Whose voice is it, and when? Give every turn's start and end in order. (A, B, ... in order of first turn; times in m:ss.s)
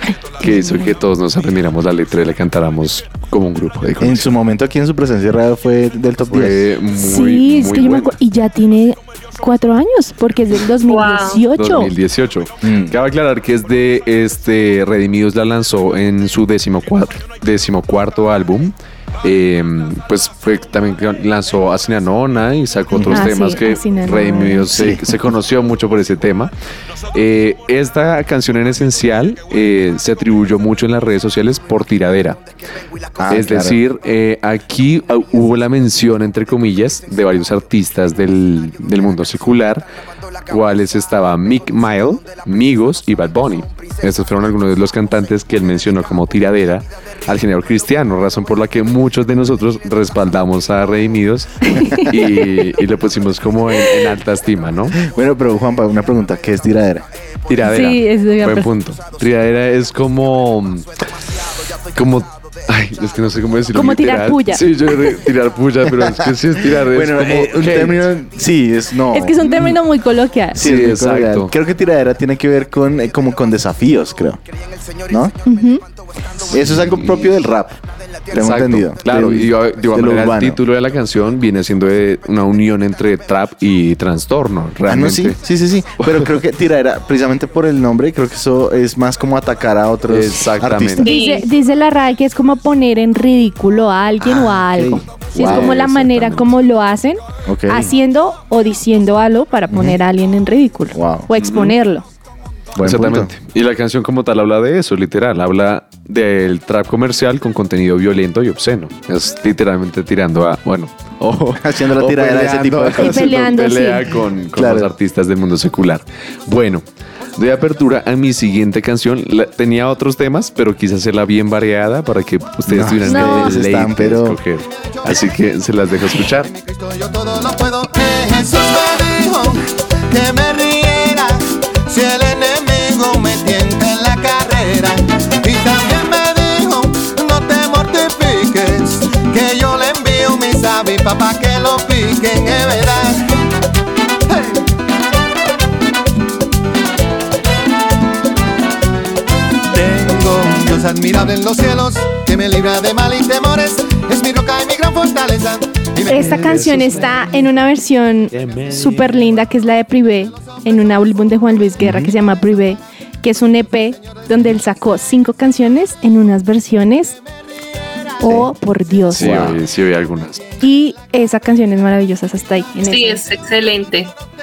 0:00.3-0:00.9 A
0:00.4-0:04.3 B
0:04.0-0:06.7 C
0:06.3-0:08.2 B
0:06.9-0:11.9 A
0:10.9-0:11.4 D
0:11.5-0:26.5 B
0:12.6-0:13.0 C
0:22.9-0:23.3 C
0:23.1-0:24.7 A
0:24.5-0:25.0 C
0:27.1-0:32.4 B
0:33.2-0:33.8 C
0:33.3-0:39.8 B
0:40.5-0:55.0 B
0:51.6-0:52.1 A
0:54.9-0:57.0 C
0:57.5-1:00.9 B
0:57.6-0:58.7 A
1:01.9-1:08.1 B
1:03.7-1:04.6 A
1:05.9-1:09.4 C
1:09.1-1:10.6 A
1:10.5-1:11.5 B
1:10.5-1:14.4 C
1:15.1-1:15.3 C
1:15.4-1:15.8 A
1:16.5-1:17.7 C
1:16.6-1:17.3 B
1:18.3-1:20.6 C
1:18.3-1:25.4 B
1:24.8-1:31.1 C
1:26.0-1:26.3 B
1:30.1-1:31.1 B
1:31.0-1:42.0 A
1:31.0-1:31.4 D
1:34.2-1:35.8 C
1:35.3-1:36.5 B
1:37.4-1:37.9 C
1:39.7-1:40.0 C
1:40.9-1:41.3 C
1:41.4-1:41.8 B
1:42.7-1:43.3 C
1:42.8-1:56.8 B
1:51.6-1:53.5 C
1:53.0-1:54.0 A
1:54.6-1:54.9 C
1:57.4-2:06.5 B
2:02.6-2:04.4 C
2:03.0-2:03.5 A
2:06.4-2:23.3 E
2:24.3-2:24.6 E
2:29.7-2:36.7 E
2:36.1-2:47.2 A
2:36.2-2:37.2 B
2:38.4-2:39.1 B
2:41.8-2:42.1 C
2:48.2-2:49.5 A
2:48.2-2:48.5 C
2:49.1-2:50.4 B
2:49.2-2:49.6 C
2:50.6-2:53.2 A
2:52.8-2:54.1 D